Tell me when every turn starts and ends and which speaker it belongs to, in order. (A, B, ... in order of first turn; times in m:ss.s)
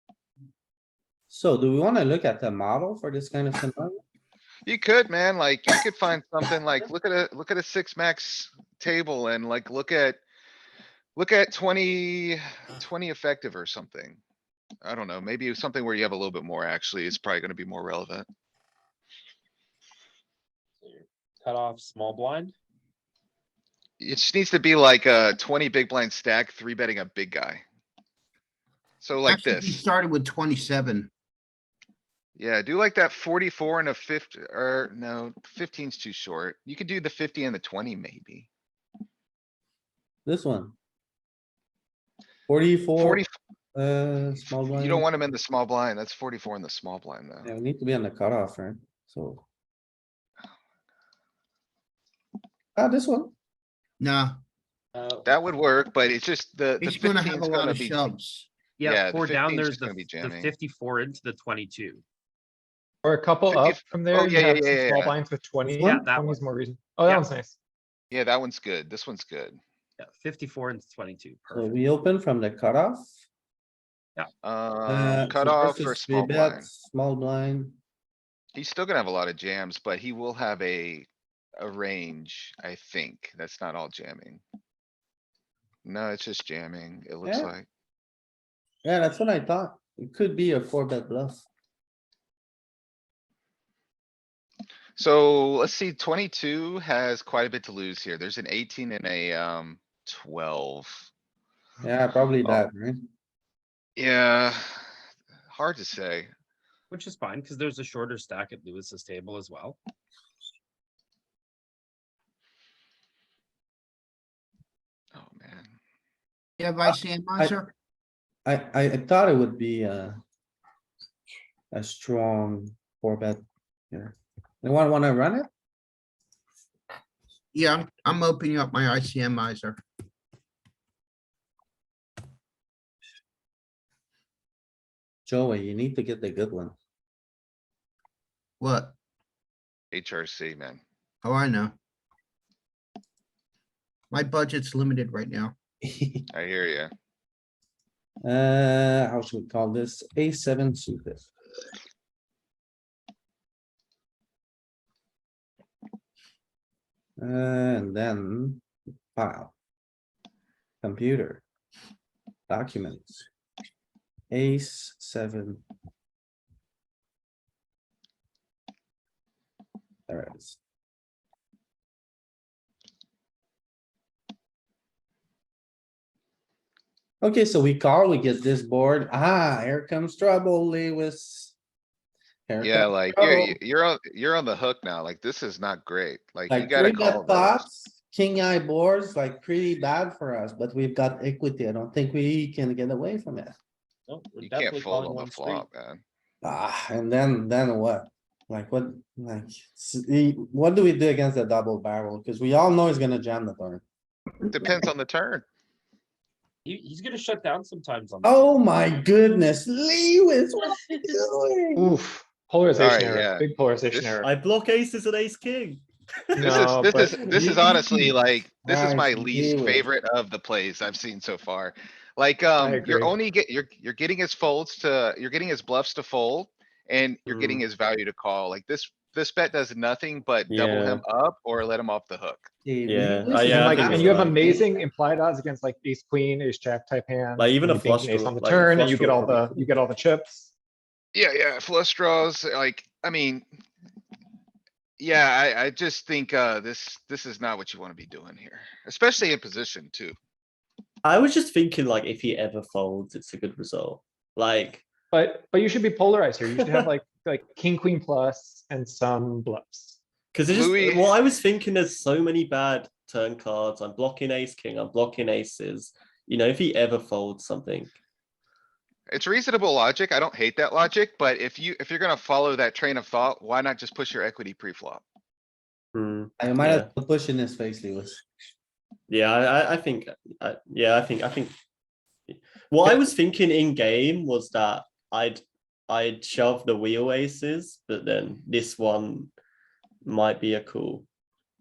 0:01.3-0:04.0 A
0:04.6-0:10.2 B
0:11.2-0:14.2 B
0:14.8-0:18.3 B
0:20.8-0:22.5 C
0:24.0-0:27.6 B
0:29.0-0:29.8 B
0:29.3-0:31.1 D
0:32.4-0:38.5 B
0:40.2-0:40.8 A
0:42.5-0:43.2 A
0:43.0-0:43.3 B
0:43.7-0:45.0 A
0:44.7-0:47.5 B
0:47.4-0:49.4 A
0:52.8-0:53.3 A
0:54.0-0:54.4 D
0:54.9-0:55.3 C
0:55.2-0:58.0 B
0:56.8-0:58.5 D
0:58.8-1:02.0 C
0:58.8-1:00.5 B
1:03.0-1:07.5 E
1:03.5-1:05.2 B
1:05.6-1:06.4 C
1:05.8-1:06.0 A
1:08.1-1:09.6 B
1:10.0-1:11.8 C
1:11.5-1:13.1 A
1:14.4-1:16.6 B
1:14.9-1:17.8 A
1:18.5-1:24.4 B
1:25.8-1:27.6 B
1:27.2-1:27.5 A
1:28.8-1:31.4 A
1:35.0-1:41.1 B
1:41.8-1:43.0 A
1:44.0-1:44.8 B
1:45.5-1:46.3 B
1:46.9-1:49.8 C
1:55.1-1:55.7 B
1:56.6-1:57.7 D
1:58.4-2:00.2 A
2:01.7-2:05.5 A
2:07.5-2:09.8 D
2:15.3-2:16.8 A
2:18.6-2:19.0 D
2:19.9-2:20.8 B
2:21.2-2:21.7 D
2:24.1-2:25.6 D
2:25.8-2:26.2 A
2:26.3-2:26.9 B
2:28.2-2:31.2 A
2:37.2-2:39.5 A
2:40.8-2:41.4 A
2:42.5-2:43.3 A
2:44.3-2:45.6 A
2:50.1-2:50.6 A
2:57.2-3:01.6 A
3:02.5-3:03.5 A
3:02.6-3:07.6 B
3:06.5-3:13.5 A
3:14.1-3:15.6 C
3:14.4-3:16.0 B
3:16.4-3:23.8 A
3:24.4-3:25.4 B
3:26.6-3:28.5 C
3:28.2-3:31.9 A
3:31.8-3:34.3 E
3:32.8-3:34.2 B
3:34.2-3:37.6 F
3:36.4-3:37.1 E
3:36.4-3:52.5 B
3:37.3-3:38.1 A
3:38.6-3:39.8 A
3:42.6-3:43.1 E
3:47.3-3:47.6 F
3:50.5-3:51.0 F
3:52.6-3:54.7 A
3:52.9-3:54.4 F
3:53.5-4:00.5 E
3:57.4-3:59.6 F
4:01.1-4:03.4 B
4:05.0-4:10.2 B
4:11.0-4:14.8 F
4:15.1-4:20.0 E
4:16.5-4:16.9 F
4:20.3-4:27.9 F
4:20.5-4:21.1 B
4:29.1-4:35.0 B
4:35.9-4:36.9 F
4:36.4-4:38.2 A
4:39.1-4:41.5 F
4:42.3-4:49.3 F
4:50.0-4:51.0 F